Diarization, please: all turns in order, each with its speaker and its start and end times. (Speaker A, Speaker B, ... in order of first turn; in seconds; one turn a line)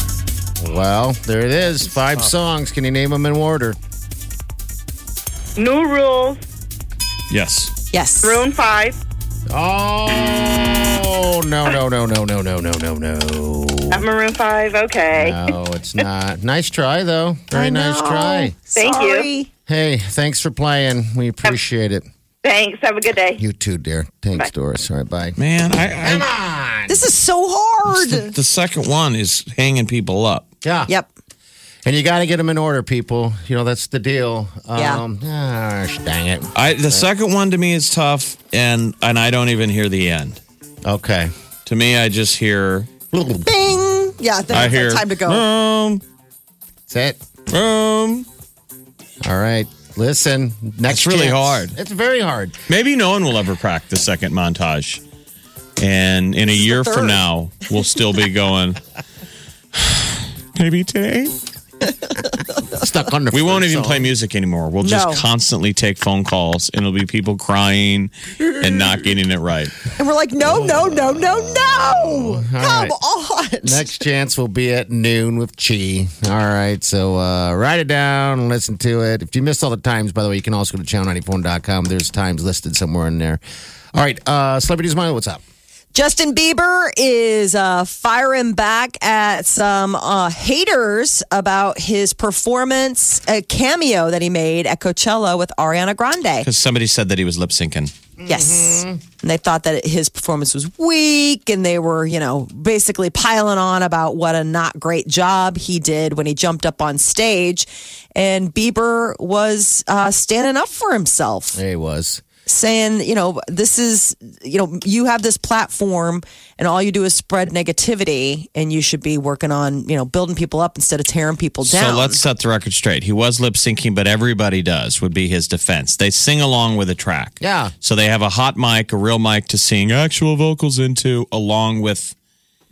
Speaker A: 0.6-3.8
Speaker B: 5.5-6.4
Speaker C: 7.3-7.7
Speaker D: 7.9-8.4
Speaker B: 8.2-9.0
Speaker A: 9.5-14.1
Speaker B: 13.9-15.5
Speaker A: 15.1-18.5
Speaker D: 17.5-19.5
Speaker B: 18.7-19.3
Speaker A: 19.7-22.1
Speaker B: 22.4-23.4
Speaker A: 23.4-25.4
Speaker C: 25.4-26.3
Speaker A: 26.0-27.0
Speaker D: 26.9-28.3
Speaker C: 27.9-30.5
Speaker A: 30.6-30.9
Speaker A: 31.8-37.1
Speaker D: 34.7-35.0
Speaker C: 36.5-40.4
Speaker A: 40.8-41.3
Speaker C: 41.6-42.9
Speaker A: 43.1-43.5
Speaker D: 43.4-45.4
Speaker C: 44.5-46.0
Speaker A: 46.9-47.2
Speaker C: 47.5-48.2
Speaker A: 49.2-52.6
Speaker C: 50.9-51.7
Speaker C: 52.7-55.0
Speaker C: 55.8-58.8
Speaker D: 56.5-57.2
Speaker C: 59.7-61.4
Speaker A: 62.7-64.1
Speaker C: 63.3-69.8
Speaker D: 64.8-65.2
Speaker D: 70.0-73.8
Speaker A: 70.4-72.9
Speaker A: 73.6-83.4
Speaker A: 83.9-85.4
Speaker D: 85.9-96.5
Speaker C: 96.4-97.9
Speaker A: 98.2-99.0
Speaker D: 98.3-111.6
Speaker A: 111.5-112.2
Speaker D: 112.5-122.2
Speaker C: 121.6-132.1
Speaker A: 127.4-127.7